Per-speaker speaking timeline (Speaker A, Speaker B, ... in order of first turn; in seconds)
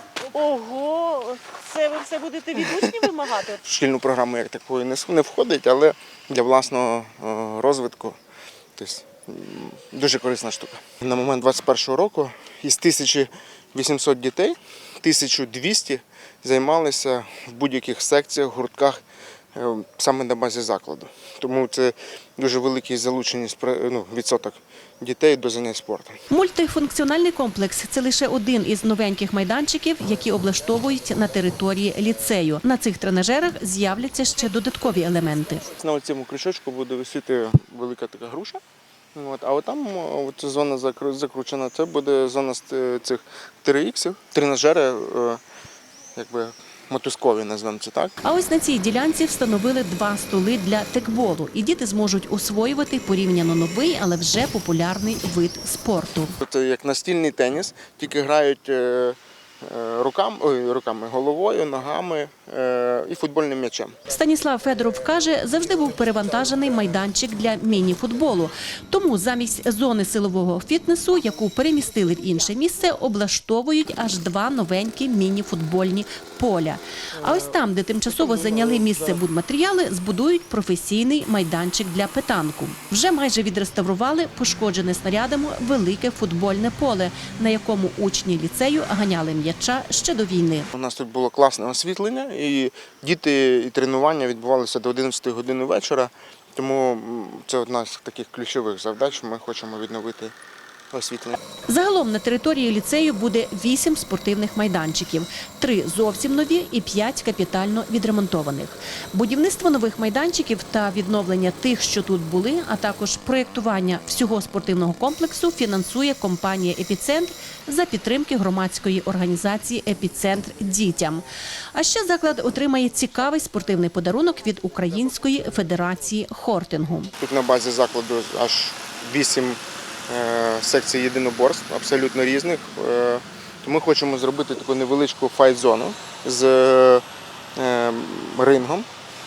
Speaker A: 0.3-3.5
Speaker B: 2.6-8.2, 8.8-19.0, 19.6-26.2, 35.8-38.6, 39.1-45.4, 46.2-48.2, 56.4-64.0, 90.7-100.3, 100.9-101.4, 127.2-137.0, 137.6-138.9
Speaker C: 26.3-35.7, 48.2-56.4, 64.1-90.7, 101.7-121.2, 121.7-127.1